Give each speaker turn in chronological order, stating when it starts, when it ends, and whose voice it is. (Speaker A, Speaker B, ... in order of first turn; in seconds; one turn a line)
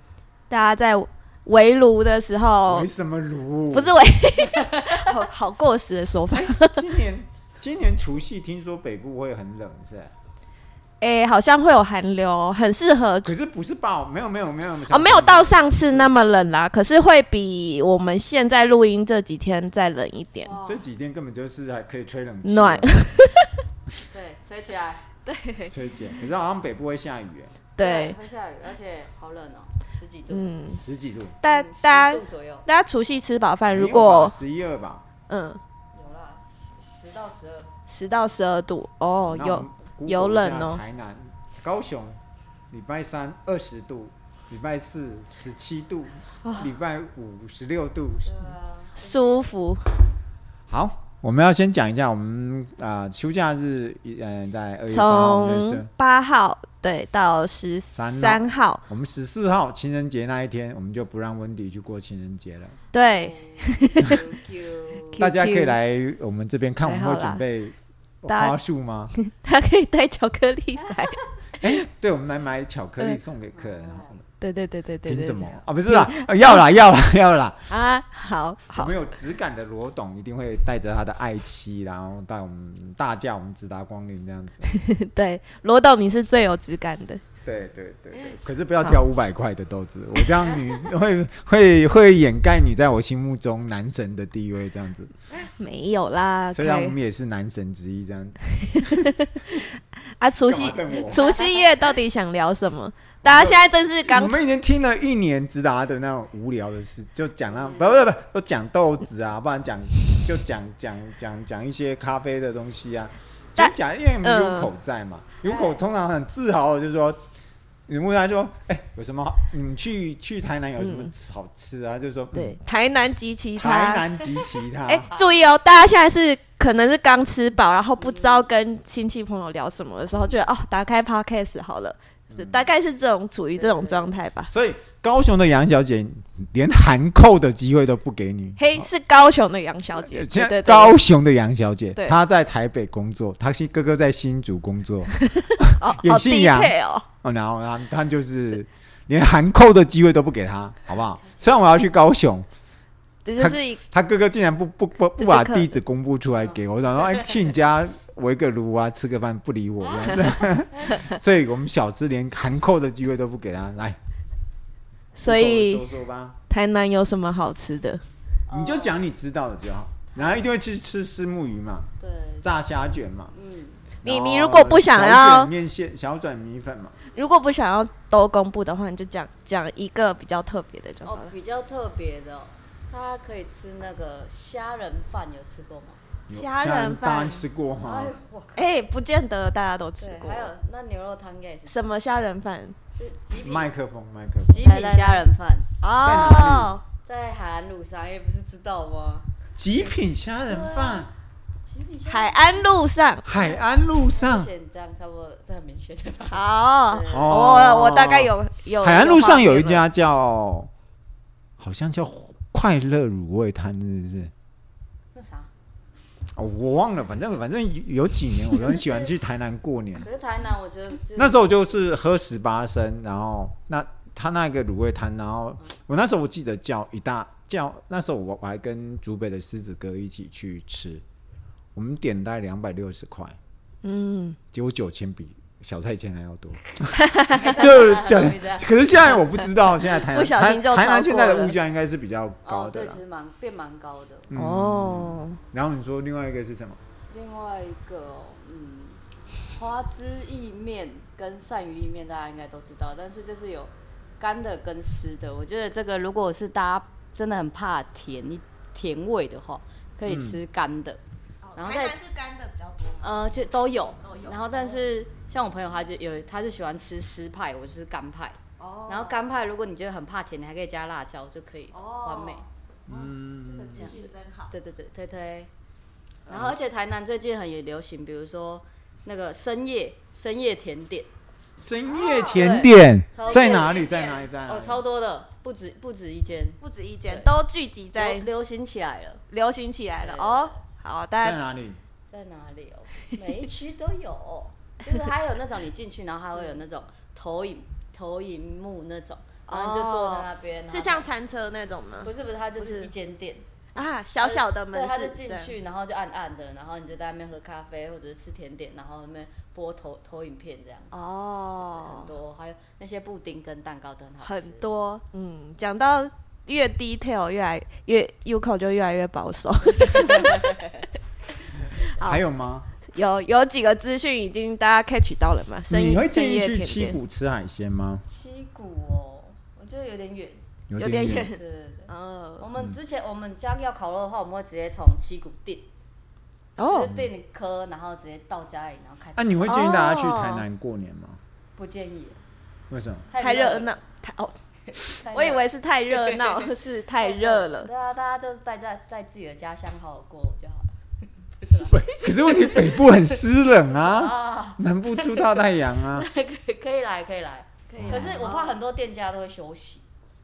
Speaker A: 0.5-2.9
Speaker B: 2.6-4.0
Speaker A: 3.7-6.8
Speaker C: 4.5-5.2
Speaker B: 6.3-10.1
Speaker A: 11.0-13.3
Speaker B: 13.2-16.1
Speaker A: 14.9-20.5
Speaker C: 20.4-20.9
Speaker B: 20.6-22.9
Speaker A: 22.4-23.5
Speaker C: 24.1-25.0
Speaker A: 25.2-25.7
Speaker B: 25.7-27.6
Speaker A: 27.8-28.2
Speaker C: 27.8-30.5
Speaker A: 30.3-30.8
Speaker B: 30.7-31.4
Speaker A: 31.4-34.4
Speaker C: 31.4-32.6
Speaker B: 33.7-35.0
Speaker A: 35.3-35.6
Speaker C: 35.9-37.7
Speaker A: 37.9-40.8
Speaker B: 39.3-42.2
Speaker B: 42.7-48.5
Speaker A: 46.4-46.7
Speaker C: 48.2-49.6
Speaker A: 49.0-49.9
Speaker B: 50.7-55.9
Speaker A: 54.9-58.8
Speaker B: 57.9-62.8
Speaker A: 62.9-64.2
Speaker C: 63.0-65.2
Speaker A: 65.2-65.8
Speaker B: 65.2-69.1
Speaker A: 66.8-67.4
Speaker A: 68.3-68.5
Speaker A: 69.1-71.8
Speaker B: 71.6-74.2
Speaker C: 73.5-74.1
Speaker A: 74.4-76.6
Speaker B: 75.0-77.7
Speaker A: 77.7-79.0
Speaker B: 78.7-84.7
Speaker A: 84.7-87.2
Speaker B: 87.4-95.1
Speaker A: 90.2-90.6
Speaker A: 95.3-96.9
Speaker B: 96.5-99.1
Speaker A: 98.8-104.4
Speaker B: 100.4-101.3
Speaker C: 101.2-101.9
Speaker B: 103.2-117.2
Speaker A: 113.6-114.7
Speaker C: 115.4-115.8
Speaker B: 117.9-122.6
Speaker A: 120.8-121.1
Speaker A: 122.3-124.0
Speaker B: 123.4-125.1
Speaker A: 124.8-134.5
Speaker C: 125.1-125.4
Speaker C: 128.0-128.5
Speaker B: 132.3-132.7
Speaker C: 133.6-134.2
Speaker B: 134.5-138.9
Speaker A: 138.6-141.0
Speaker B: 139.9-152.4
Speaker A: 145.2-147.1
Speaker A: 153.2-153.8
Speaker B: 153.4-164.0
Speaker A: 155.2-155.8
Speaker C: 156.4-157.4
Speaker C: 159.9-160.9
Speaker A: 165.1-165.8
Speaker B: 165.2-166.4
Speaker A: 166.5-168.0
Speaker C: 168.5-169.0
Speaker B: 168.5-171.9
Speaker C: 170.1-170.4
Speaker C: 172.0-172.5
Speaker B: 172.4-173.3
Speaker C: 173.3-173.9
Speaker B: 174.0-177.0
Speaker A: 174.0-175.5
Speaker A: 177.1-181.3
Speaker C: 181.0-186.0
Speaker B: 186.3-188.1
Speaker A: 186.3-187.4
Speaker C: 187.8-188.7
Speaker A: 188.6-190.5
Speaker C: 190.0-191.8
Speaker A: 191.7-192.8
Speaker C: 192.9-193.7
Speaker B: 193.3-194.7
Speaker C: 194.5-195.7
Speaker A: 194.6-195.2
Speaker A: 195.8-196.8
Speaker B: 196.0-196.8
Speaker C: 197.0-199.3
Speaker B: 199.6-201.1
Speaker C: 200.5-201.1
Speaker C: 201.6-202.7
Speaker A: 202.1-203.2
Speaker B: 203.2-204.5
Speaker C: 203.3-207.3
Speaker A: 206.3-209.9
Speaker B: 207.1-210.7
Speaker B: 211.6-214.3
Speaker C: 215.1-215.5
Speaker B: 216.3-220.1
Speaker C: 218.7-219.1
Speaker C: 220.0-221.5
Speaker B: 221.2-231.0
Speaker B: 231.7-233.3
Speaker A: 233.8-234.4
Speaker B: 234.5-243.0
Speaker A: 236.9-237.5
Speaker C: 237.3-238.7
Speaker A: 240.0-241.5
Speaker C: 242.4-244.3
Speaker B: 244.3-246.8
Speaker A: 244.3-245.4
Speaker C: 247.1-261.0
Speaker B: 260.1-260.4
Speaker A: 261.4-263.3
Speaker C: 261.5-262.0
Speaker C: 263.0-272.4
Speaker A: 264.0-264.8
Speaker A: 268.6-269.2
Speaker A: 271.7-274.5
Speaker B: 272.9-274.0
Speaker C: 274.5-275.5
Speaker B: 276.3-276.6
Speaker C: 276.3-281.1
Speaker B: 281.6-284.8
Speaker A: 281.9-282.5
Speaker C: 282.3-287.3
Speaker A: 283.2-284.2
Speaker A: 286.6-288.2
Speaker C: 287.9-289.2
Speaker A: 289.3-291.4
Speaker C: 290.0-290.6
Speaker B: 291.2-291.8
Speaker C: 292.1-301.1
Speaker A: 299.5-302.9
Speaker C: 302.0-303.5
Speaker A: 303.7-305.6
Speaker C: 304.2-311.0
Speaker A: 310.9-312.1
Speaker C: 311.6-314.6
Speaker A: 314.2-320.5
Speaker C: 319.9-320.8
Speaker A: 321.9-322.2
Speaker B: 322.0-322.7
Speaker A: 322.9-327.0
Speaker B: 325.7-328.0
Speaker C: 328.1-330.4
Speaker B: 330.7-331.3
Speaker A: 330.8-332.4
Speaker C: 331.1-335.7
Speaker A: 336.6-336.9
Speaker C: 336.6-339.8
Speaker B: 339.1-341.2
Speaker A: 339.4-340.4
Speaker C: 341.6-342.2
Speaker B: 342.7-343.1
Speaker C: 343.1-343.8
Speaker A: 343.2-347.7
Speaker C: 344.7-350.8
Speaker C: 351.4-353.0
Speaker B: 351.7-356.1
Speaker C: 353.8-359.8
Speaker A: 357.7-358.6
Speaker B: 357.8-358.3